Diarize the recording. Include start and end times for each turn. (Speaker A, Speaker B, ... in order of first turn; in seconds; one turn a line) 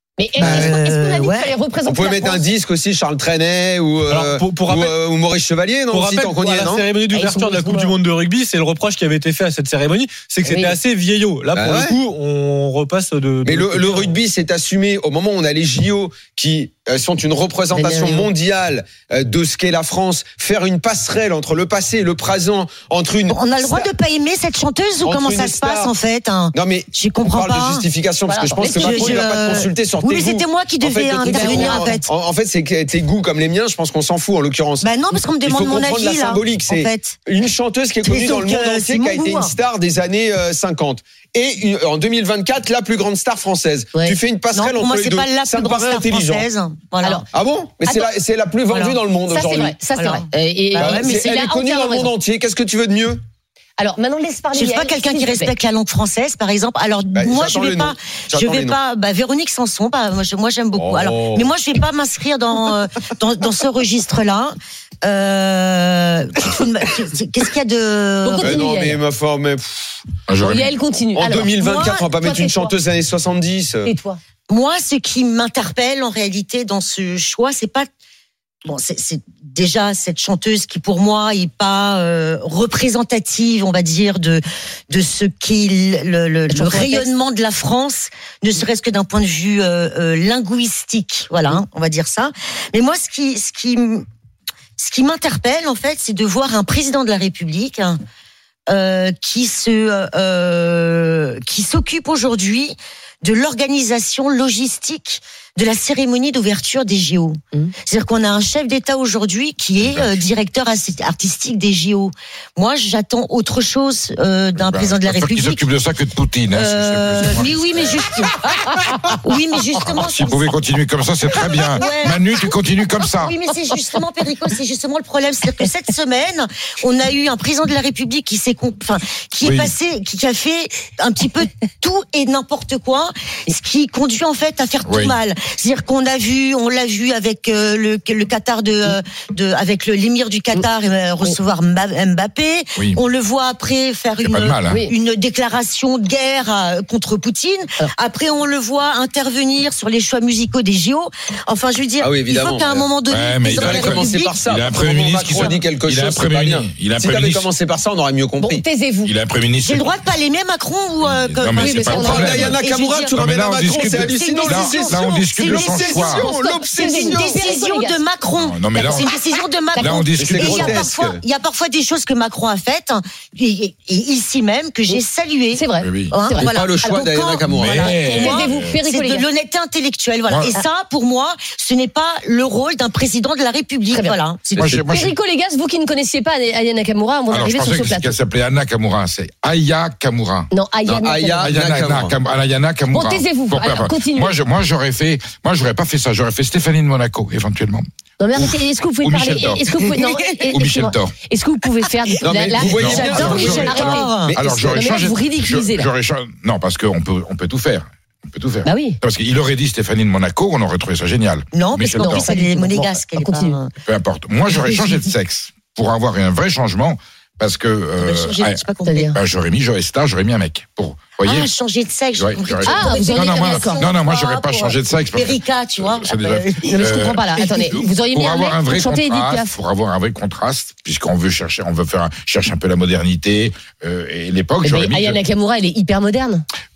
Speaker A: 0.2-2.5
Speaker B: 0.4-1.5
Speaker C: 0.4-0.8
Speaker C: 1.8-6.8
Speaker D: 4.1-4.9
Speaker D: 5.9-14.2
Speaker A: 7.1-8.0
Speaker A: 10.4-10.8
Speaker C: 11.5-12.0
Speaker C: 13.4-23.9
Speaker A: 17.7-18.2
Speaker B: 23.3-27.9
Speaker C: 25.0-25.9
Speaker C: 26.5-46.5
Speaker A: 28.3-29.5
Speaker B: 28.7-32.1
Speaker A: 31.3-31.9
Speaker B: 34.8-37.2
Speaker B: 38.0-39.5
Speaker B: 44.5-47.3
Speaker C: 47.3-49.8
Speaker B: 48.7-49.0
Speaker A: 49.3-52.1
Speaker B: 49.9-51.2
Speaker C: 50.8-53.2
Speaker A: 53.8-55.5
Speaker B: 54.6-64.5
Speaker C: 57.1-58.8
Speaker C: 60.7-61.5
Speaker B: 65.0-68.6
Speaker A: 68.2-69.0
Speaker C: 68.4-70.0
Speaker E: 70.3-70.6
Speaker A: 70.4-71.5
Speaker C: 70.6-73.9
Speaker B: 71.6-72.1
Speaker A: 72.1-72.7
Speaker A: 73.8-74.2
Speaker B: 74.5-77.9
Speaker B: 78.7-94.0
Speaker A: 86.5-87.1
Speaker B: 94.8-98.0
Speaker B: 98.7-115.6
Speaker E: 109.8-110.2
Speaker E: 114.6-118.0
Speaker B: 116.5-118.3
Speaker B: 119.2-120.6
Speaker E: 119.8-123.3
Speaker B: 121.3-154.4
Speaker E: 129.4-129.7
Speaker E: 134.8-135.1
Speaker E: 144.2-144.8
Speaker C: 152.0-152.9
Speaker E: 153.1-157.5
Speaker C: 153.5-158.6
Speaker A: 158.4-159.1
Speaker E: 159.0-159.9
Speaker B: 159.6-163.2
Speaker E: 161.0-166.2
Speaker A: 161.6-162.5
Speaker C: 161.9-167.4
Speaker B: 163.8-184.8
Speaker A: 165.9-168.0
Speaker E: 168.4-169.1
Speaker E: 169.8-170.8
Speaker C: 170.2-171.2
Speaker A: 175.5-177.0
Speaker E: 175.8-176.4
Speaker C: 176.4-177.8
Speaker E: 177.5-178.8
Speaker A: 177.9-179.2
Speaker E: 180.3-180.6
Speaker A: 183.9-184.2
Speaker C: 184.6-185.1
Speaker E: 184.6-185.1
Speaker A: 184.8-188.2
Speaker E: 187.3-190.5
Speaker A: 190.5-191.8
Speaker C: 190.8-192.2
Speaker E: 191.4-197.8
Speaker A: 192.9-194.4
Speaker A: 198.2-205.9
Speaker E: 198.3-199.7
Speaker E: 200.5-201.1
Speaker C: 202.2-205.0
Speaker E: 202.6-212.2
Speaker B: 202.8-204.3
Speaker A: 208.6-209.0
Speaker B: 211.5-213.7
Speaker A: 212.0-213.6
Speaker E: 213.8-221.5
Speaker B: 214.5-214.8
Speaker B: 218.0-219.2
Speaker A: 218.8-219.2
Speaker B: 221.2-226.8
Speaker E: 222.2-227.2
Speaker A: 222.7-223.8
Speaker A: 226.6-229.5
Speaker B: 227.4-227.8
Speaker E: 228.1-235.2
Speaker A: 234.6-236.4